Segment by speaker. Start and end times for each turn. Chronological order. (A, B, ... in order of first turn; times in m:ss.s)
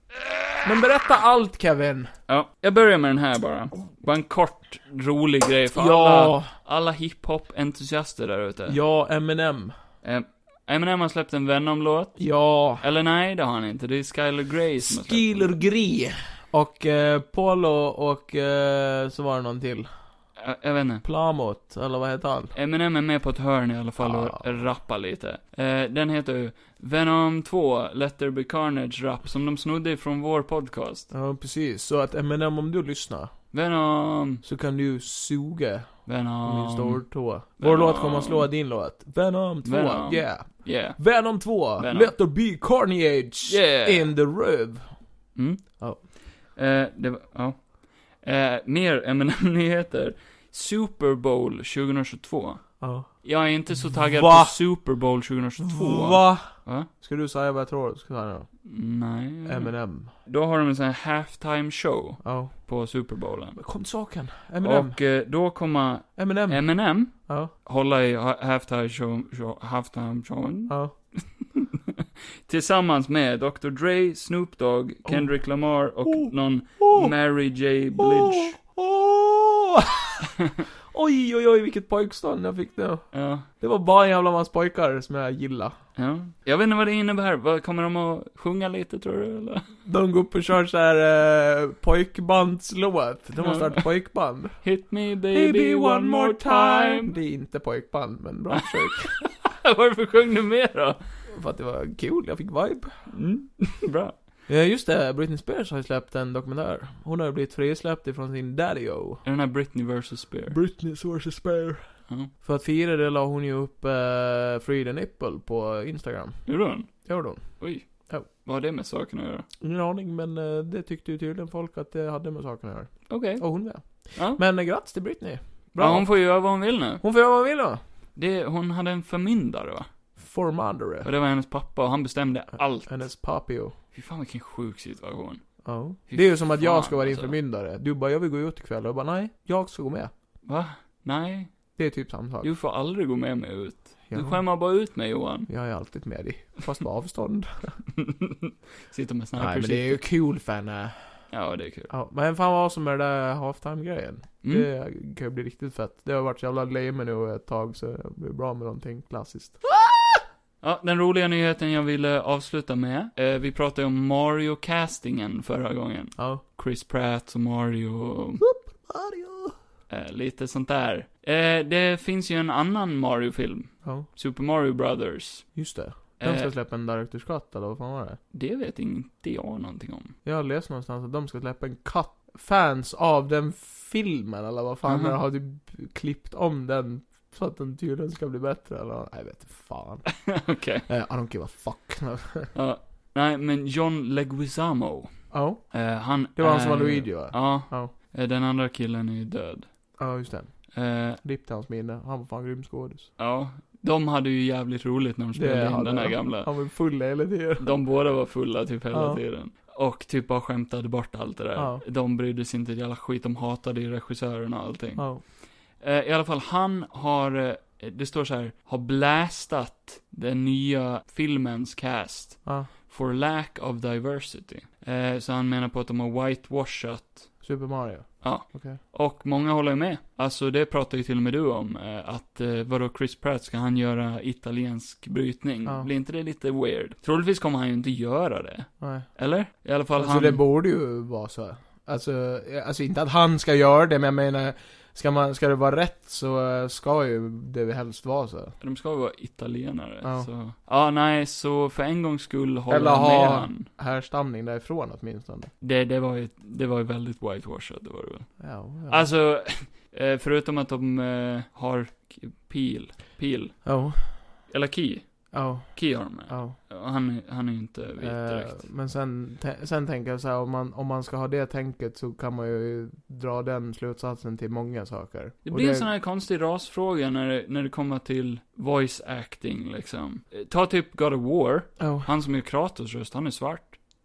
0:00.6-0:02.1 A
0:02.3-0:08.8 B
0:05.7-0:06.5 A
0:08.7-0:09.7 A
0:10.0-0:12.3 B
0:12.2-0:12.8 A
0:12.8-0:15.6 B
0:14.8-0:19.9 A
0:20.4-0:21.0 B
0:21.0-0:22.5 A
0:22.5-0:31.1 B
0:24.0-0:24.5 A
0:31.1-0:33.3 A
0:33.5-0:34.4 B
0:34.4-0:45.0 A
0:36.0-0:38.5 B
0:39.6-0:41.0 B
0:41.8-0:42.1 B
0:43.4-0:44.1 B
0:45.4-0:56.9 B
0:52.8-0:53.2 A
0:53.8-0:54.6 A
0:55.6-0:58.5 A
0:58.6-1:03.6 B
0:59.4-1:00.1 A
1:02.2-1:02.5 A
1:03.6-1:05.0 A
1:04.6-1:18.6 B
1:06.2-1:07.5 A
1:10.7-1:10.9 A
1:15.0-1:17.1 A
1:18.0-1:20.3 A
1:20.9-1:25.7 A
1:23.1-1:23.5 B
1:26.0-1:29.7 B
1:29.8-1:34.6 A
1:33.4-1:33.8 B
1:34.6-1:37.1 B
1:35.3-1:39.2 A
1:38.5-1:41.0 B
1:41.3-1:43.1 A
1:43.1-1:44.2 B
1:44.5-1:49.2 A
1:49.2-1:50.6 B
1:50.5-1:58.2 A
1:56.4-1:59.5 B
1:59.6-2:06.1 A
2:03.1-2:04.4 B
2:05.8-2:07.0 B
2:07.0-2:07.8 A
2:08.2-2:09.9 B
2:10.2-2:11.1 A
2:11.0-2:13.0 B
2:12.8-2:13.7 A
2:13.9-2:15.5 B
2:15.6-2:20.1 A
2:16.1-2:17.4 B
2:20.4-2:21.6 B
2:21.8-2:22.5 A
2:22.4-2:25.5 B
2:24.1-2:24.4 A
2:25.5-2:27.8 A
2:27.9-2:30.0 B
2:29.4-2:31.2 A
2:31.3-2:31.9 B
2:31.9-2:40.2 A
2:34.4-2:34.7 B
2:40.6-2:48.4 B
2:46.2-2:46.4 A
2:48.4-2:49.6 A
2:49.9-2:55.5 B
2:55.5-2:58.2 A
2:56.2-2:56.5 B
2:58.3-3:00.1 B
3:00.2-3:12.5 A
3:04.9-3:05.2 B
3:10.1-3:10.8 B
3:12.5-3:19.7 B
3:15.3-3:17.9 A
3:20.0-3:23.1 A
3:20.7-3:21.2 B
3:23.2-3:26.5 B
3:25.3-3:27.8 A
3:27.6-3:47.4 B
3:28.9-3:29.2 A
3:31.6-3:31.8 A
3:35.0-3:35.2 A
3:42.4-3:42.7 A
3:47.4-3:48.8 A
3:48.2-4:00.4 B
3:58.8-3:59.1 A
3:59.9-4:08.5 A
4:08.6-4:13.7 B
4:10.0-4:10.3 A
4:12.7-4:15.5 A
4:15.6-4:23.7 B
4:18.4-4:19.0 A
4:23.6-4:24.3 A
4:24.5-4:28.6 B
4:25.3-4:26.6 A
4:28.0-4:35.9 A
4:35.4-4:43.8 B
4:41.8-4:42.1 A